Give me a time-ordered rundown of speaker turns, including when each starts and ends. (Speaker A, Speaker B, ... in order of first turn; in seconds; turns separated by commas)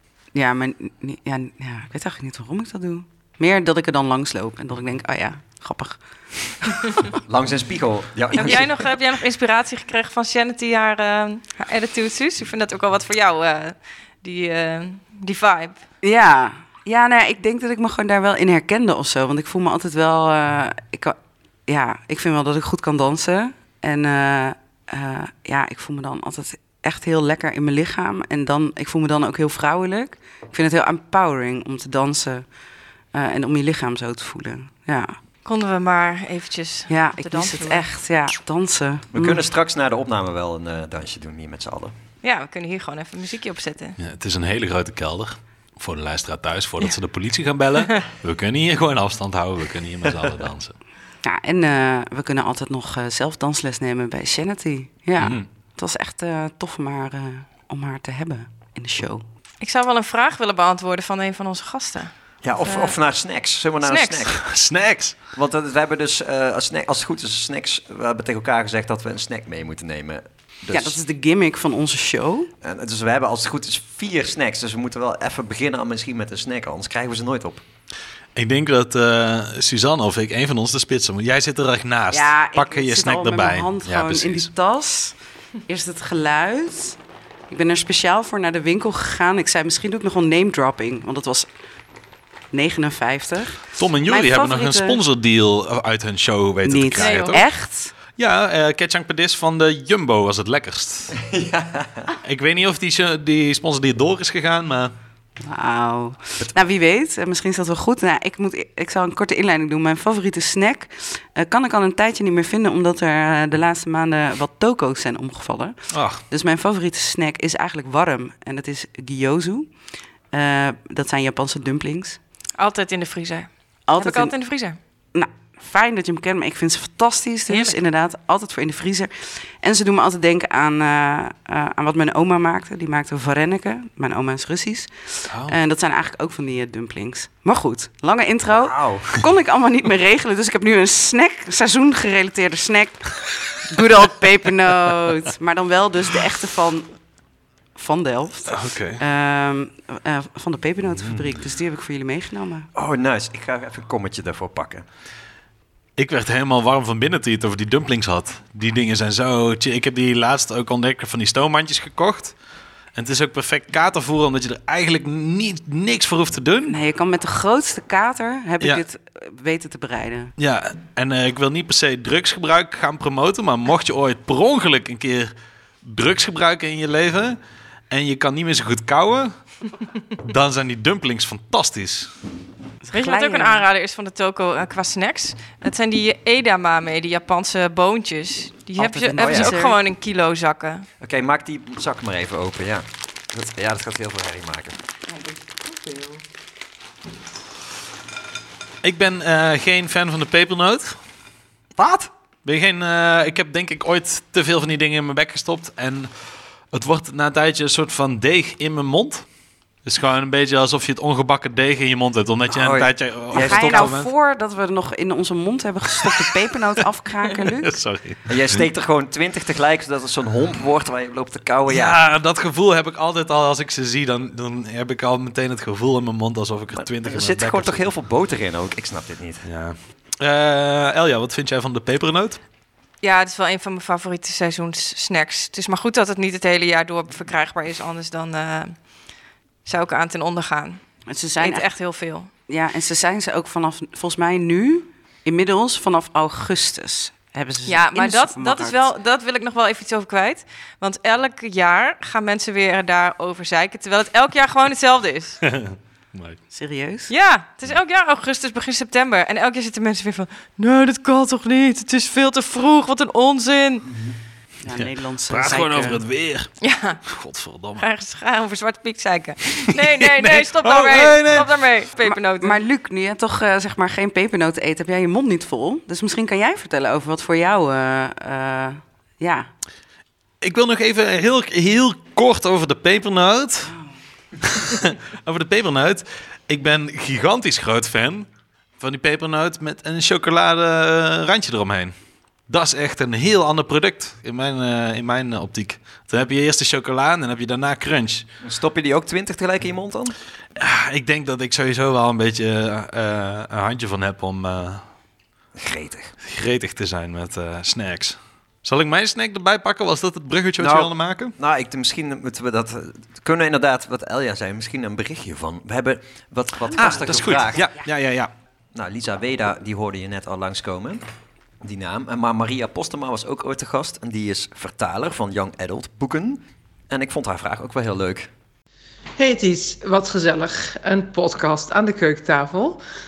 Speaker A: 0.3-7.0, Speaker B: 7.2-8.8, Speaker C: 8.3-15.8, Speaker A: 16.0-32.4, Speaker A: 33.1-35.2, Speaker C: 35.4-37.8, Speaker A: 36.9-39.4, Speaker B: 39.1-41.9, Speaker C: 42.2-44.0, Speaker D: 44.0-50.8, Speaker A: 51.2-59.2, Speaker D: 55.2-55.5, Speaker C: 59.6-62.9, Speaker B: 62.4-64.5, Speaker C: 63.8-64.3, Speaker D: 64.4-65.2, Speaker B: 65.3-71.0, Speaker A: 70.7-72.5, Speaker B: 72.6-77.6, Speaker D: 78.3-84.5, Speaker A: 82.1-85.1, Speaker A: 85.7-91.5, Speaker A: 92.5-95.0, Speaker D: 93.8-97.5, Speaker A: 96.6-97.9, Speaker C: 97.0-97.4, Speaker D: 98.2-101.2, Speaker B: 101.2-102.1, Speaker D: 102.2-104.9, Speaker A: 105.4-119.7, Speaker D: 115.9-116.2, Speaker A: 120.3-122.2, Speaker C: 122.6-124.8, Speaker A: 123.9-124.3, Speaker A: 125.1-147.1, Speaker C: 127.5-127.8, Speaker D: 135.3-135.6, Speaker B: 138.5-139.1, Speaker A: 147.7-152.7, Speaker D: 148.5-149.0, Speaker B: 152.7-154.8, Speaker D: 156.0-162.3, Speaker D: 162.9-166.8, Speaker A: 166.7-170.3, Speaker D: 170.4-177.4, Speaker D: 177.9-179.5, Speaker D: 180.2-182.1, Speaker A: 182.8-183.6, Speaker C: 182.9-190.9, Speaker A: 188.8-189.7, Speaker B: 189.2-189.5, Speaker B: 191.0-194.8, Speaker D: 198.8-201.0, Speaker B: 201.8-202.1, Speaker D: 202.4-206.1, Speaker D: 206.7-209.3, Speaker D: 209.8-214.1, Speaker B: 212.5-213.9, Speaker A: 213.3-217.8, Speaker D: 217.6-218.6, Speaker B: 218.3-222.0, Speaker D: 221.7-227.9, Speaker B: 226.7-229.4, Speaker D: 229.4-232.4, Speaker C: 233.0-239.1, Speaker C: 239.6-242.3, Speaker A: 241.1-241.7, Speaker A: 242.4-248.9, Speaker C: 247.7-255.4, Speaker D: 255.4-256.4, Speaker A: 256.5-257.1, Speaker C: 257.1-263.9, Speaker A: 264.6-266.0, Speaker D: 264.7-266.5, Speaker C: 266.6-267.0, Speaker D: 267.1-267.8, Speaker C: 267.8-272.6, Speaker D: 269.8-271.5, Speaker A: 272.0-279.5, Speaker D: 280.4-283.7, Speaker D: 284.4-288.3, Speaker D: 288.8-291.9, Speaker D: 292.5-298.2, Speaker B: 298.4-300.1, Speaker D: 300.6-304.8, Speaker B: 305.6-306.1, Speaker D: 306.2-311.3, Speaker B: 310.6-317.7, Speaker D: 316.8-318.3, Speaker B: 318.7-321.0, Speaker B: 321.6-328.3, Speaker E: 329.2-332.8